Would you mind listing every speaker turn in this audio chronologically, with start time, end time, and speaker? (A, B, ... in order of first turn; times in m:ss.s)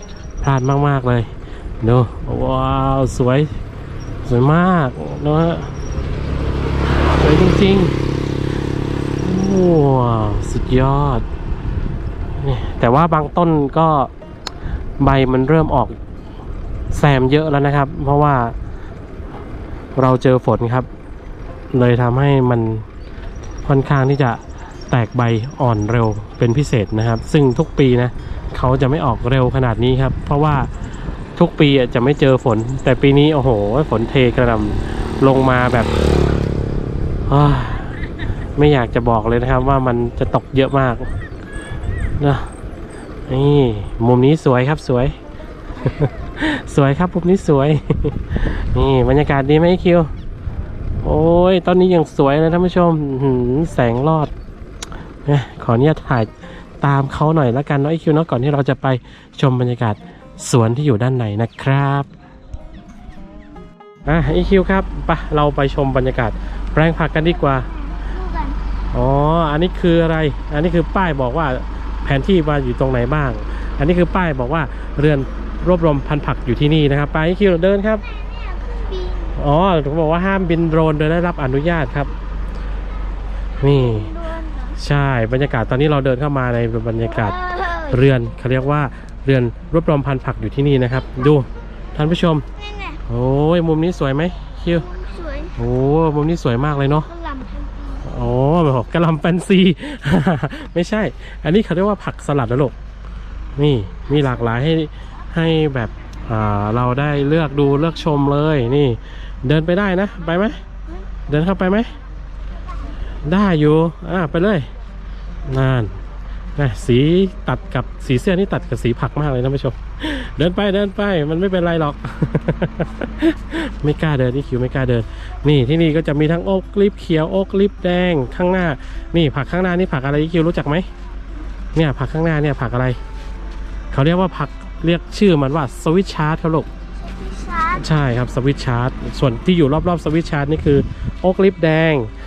0:00.4-0:01.3 A
0:01.8-0:03.5 A
0:04.2-0:05.8 A
0:06.8-0:07.9 A
0:09.2-0:11.2 A
0:12.4-0:14.1 A
0:15.0-0:16.0 A
0:16.9-0:18.6 A
0:20.0-0:20.9 A
0:21.7-0:22.8 A
0:23.6-0:30.7 A
0:31.4-0:35.9 A
0:37.3-0:38.0 A
0:38.5-0:41.1 A
0:42.2-0:42.5 A
0:43.3-0:45.2 A
0:45.8-0:50.1 A
0:51.0-0:54.3 A
0:55.2-1:02.1 A
1:04.0-1:07.7 A
1:07.5-1:08.6 B
1:08.9-1:18.0 A
1:18.0-1:19.4 B
1:19.4-1:22.1 A
1:23.6-1:24.1 A
1:23.6-1:24.8 B
1:24.8-1:32.4 A
1:27.1-1:28.0 B
1:32.6-1:33.0 B
1:33.1-1:34.9 A
1:34.7-1:35.5 B
1:35.6-1:37.1 A
1:37.1-1:38.0 B
1:38.0-1:42.7 A
1:43.6-1:50.6 A
1:51.3-1:52.0 A
1:53.2-1:54.7 A
1:55.4-1:56.0 A
1:56.6-2:10.9 A
2:11.7-2:13.0 A
2:13.9-2:16.7 A
2:17.0-2:17.8 B
2:17.7-2:22.1 A